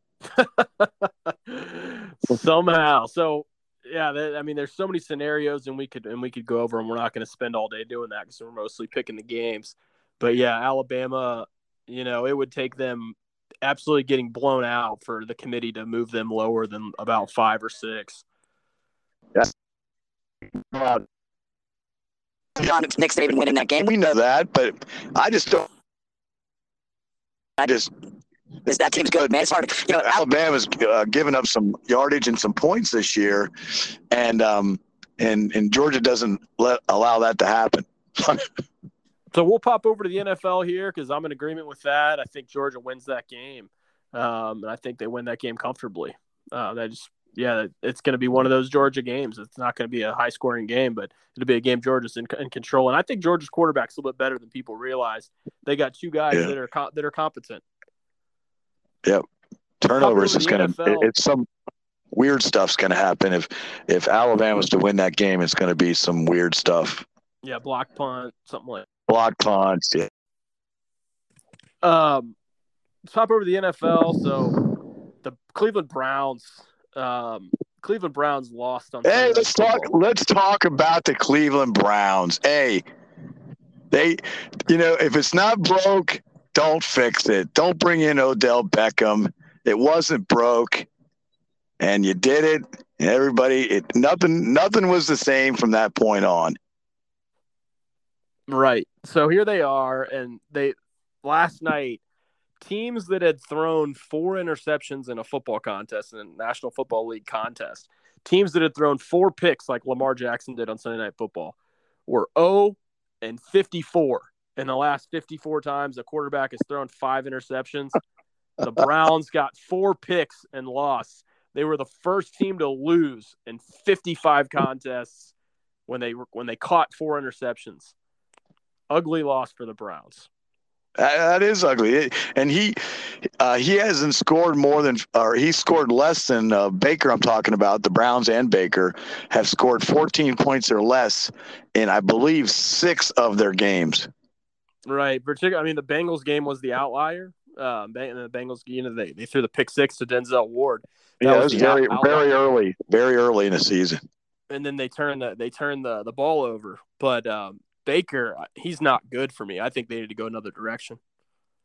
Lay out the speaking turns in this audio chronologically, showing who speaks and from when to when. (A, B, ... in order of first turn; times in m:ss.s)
0:00.4-0:18.2 A
0:20.7-0:21.0 B
0:22.6-0:23.9 C
0:23.8-0:25.7 B
0:27.6-0:27.9 B
0:28.7-0:30.1 C
0:30.0-0:33.5 B
0:34.1-0:38.5 B
0:39.3-0:57.6 A
0:59.8-1:01.5 B
1:00.0-1:01.1 A
1:02.1-1:07.0 B
1:07.4-1:08.9 A
1:09.1-1:10.1 B
1:11.8-1:12.4 A
1:13.0-1:14.6 A
1:15.2-1:19.9 A
1:19.0-1:22.8 B
1:23.9-1:30.9 B
1:31.8-1:36.6 B
1:38.5-1:42.0 A
1:42.6-1:51.6 A
1:52.1-1:58.0 A
1:58.6-2:05.3 A
2:05.9-2:07.9 A
2:08.9-2:10.3 A
2:11.0-2:24.1 B
2:24.9-2:32.3 A
2:31.2-2:34.0 B
2:34.5-2:41.0 A